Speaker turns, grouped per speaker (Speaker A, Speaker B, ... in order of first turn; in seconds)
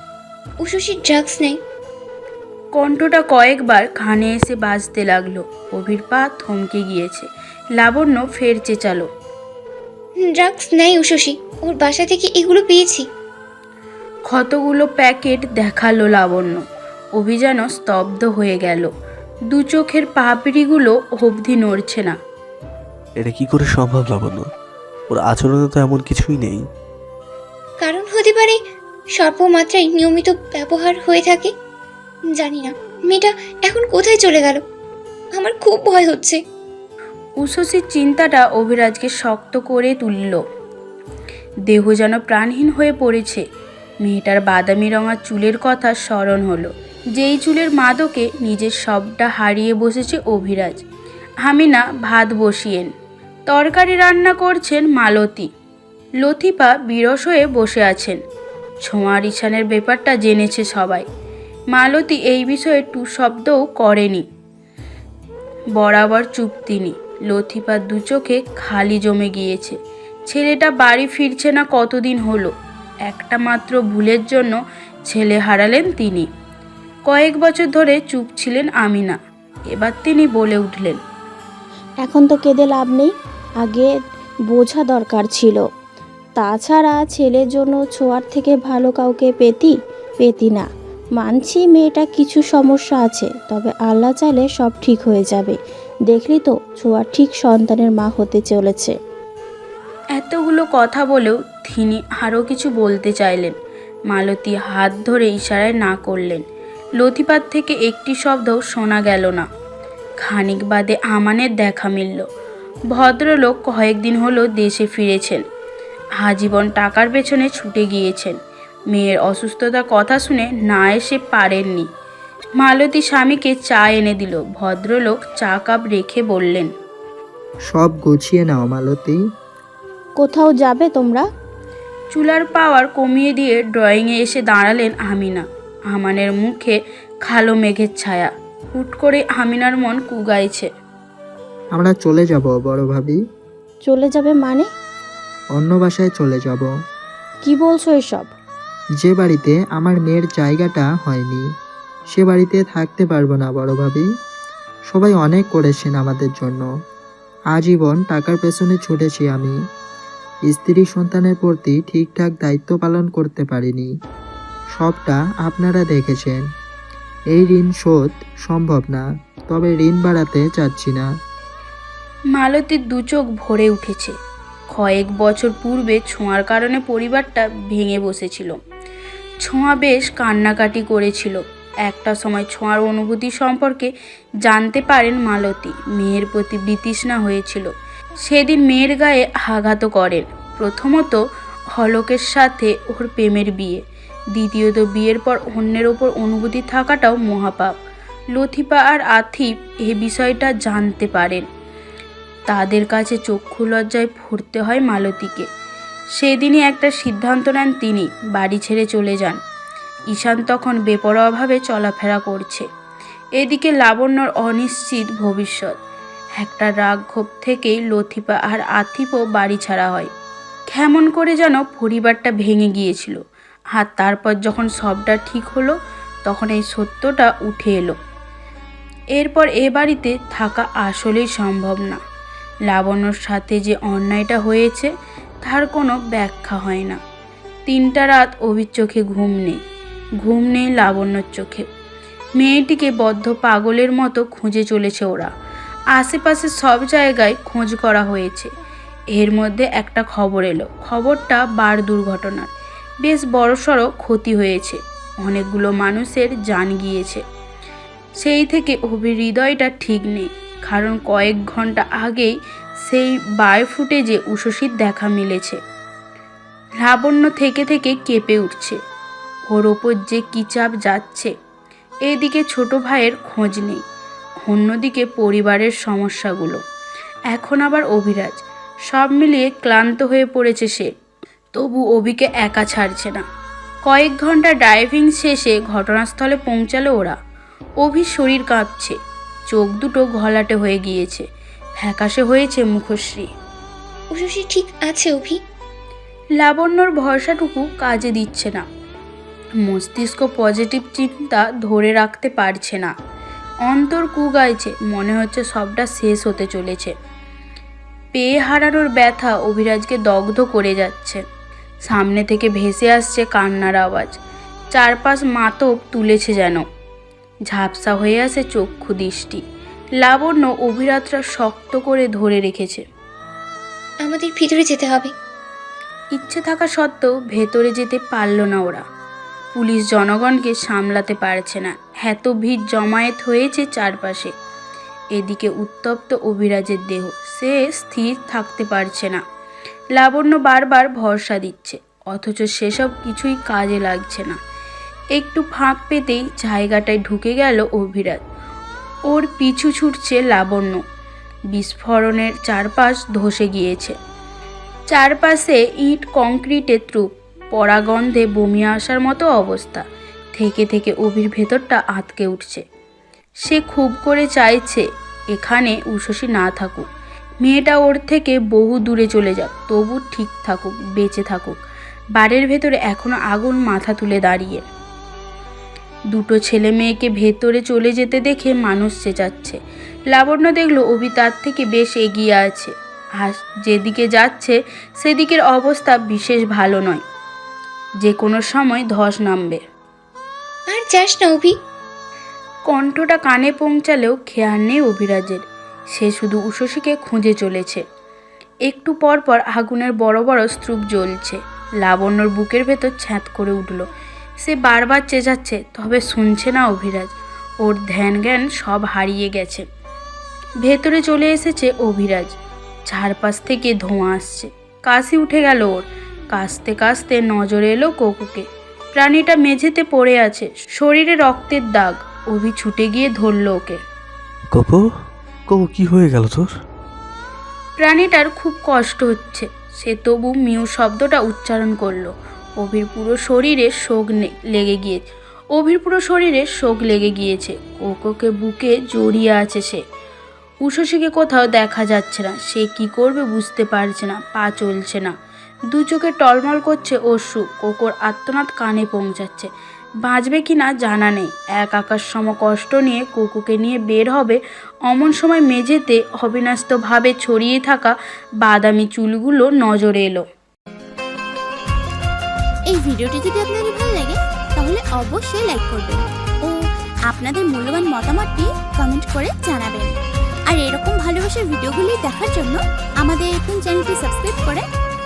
Speaker A: 0.6-1.6, 10.2-13.1, 27.8-28.6, 29.1-31.5, 32.3-34.6, 35.3-36.4, 294.1-295.4, 324.0-325.1, 390.7-391.5
Speaker B: 2.8-9.1, 14.3-16.6, 17.1-18.9, 19.5-22.1, 37.4-40.4, 41.7-43.4, 44.0-50.8, 51.4-52.9, 53.5-55.5, 56.2-58.2, 58.8-61.0, 61.7-64.2, 65.8-69.8, 70.3-72.5, 73.0-76.3, 77.1-79.2, 79.7-81.0, 100.2-103.5, 104.1-106.4, 107.0-109.4, 110.2-112.2, 112.9-115.4, 116.2-118.4, 118.9-121.9, 122.6-126.7, 132.1-140.7, 172.3-174.1, 174.7-178.6, 179.4-183.9, 184.4-187.7, 188.2-191.2, 191.7-193.8, 194.3-197.7, 198.3-201.4, 202.5-205.4, 206.2-209.4, 210.1-212.7, 213.4-215.7, 216.4-220.1, 220.7-223.2, 223.8-227.9, 229.2-232.0, 232.7-234.9, 235.4-237.0, 237.7-239.6, 240.2-241.7, 242.4-245.3, 245.9-248.5, 249.1-252.5, 253.0-257.2, 258.2-262.3, 262.8-265.6, 266.8-268.8, 269.5-271.3, 272.1-273.8, 274.4-276.6, 277.3-280.9, 281.5-283.2, 283.9-287.1, 287.8-288.9, 289.5-291.2, 291.8-293.3, 296.4-298.6, 299.6-302.9, 303.6-306.9, 308.1-311.2, 311.9-314.1, 314.7-316.6, 317.5-319.4, 320.0-322.8, 326.1-328.8, 329.5-334.3, 335.1-339.2, 339.9-344.4, 345.1-348.2, 349.1-350.8, 351.5-353.9, 354.9-359.8, 360.4-362.6, 363.4-366.9, 367.4-371.6, 372.1-374.6, 376.1-379.6, 380.1-387.0, 388.0-389.6, 392.7-395.4, 395.9-397.8, 398.6-403.9, 404.4-409.6, 410.6-412.3, 412.9-423.8, 427.8-435.0, 435.5-439.8, 440.6-445.1, 445.7-449.5, 450.0-460.2
Speaker C: 23.2-24.4, 25.1-26.6, 424.5-424.9, 425.5-426.5
Speaker D: 82.1-83.1, 84.5-85.6, 86.4-90.7, 91.2-95.5, 96.1-98.9, 130.2-131.2, 143.8-144.7, 147.4-148.3
Speaker E: 127.7-129.2, 141.7-143.2, 145.6-146.7, 149.0-151.4, 152.1-154.0, 154.9-156.6, 157.5-159.5, 160.4-163.9, 164.8-166.4, 167.3-171.1
Speaker F: 462.7-466.5, 467.1-469.9, 470.5-474.6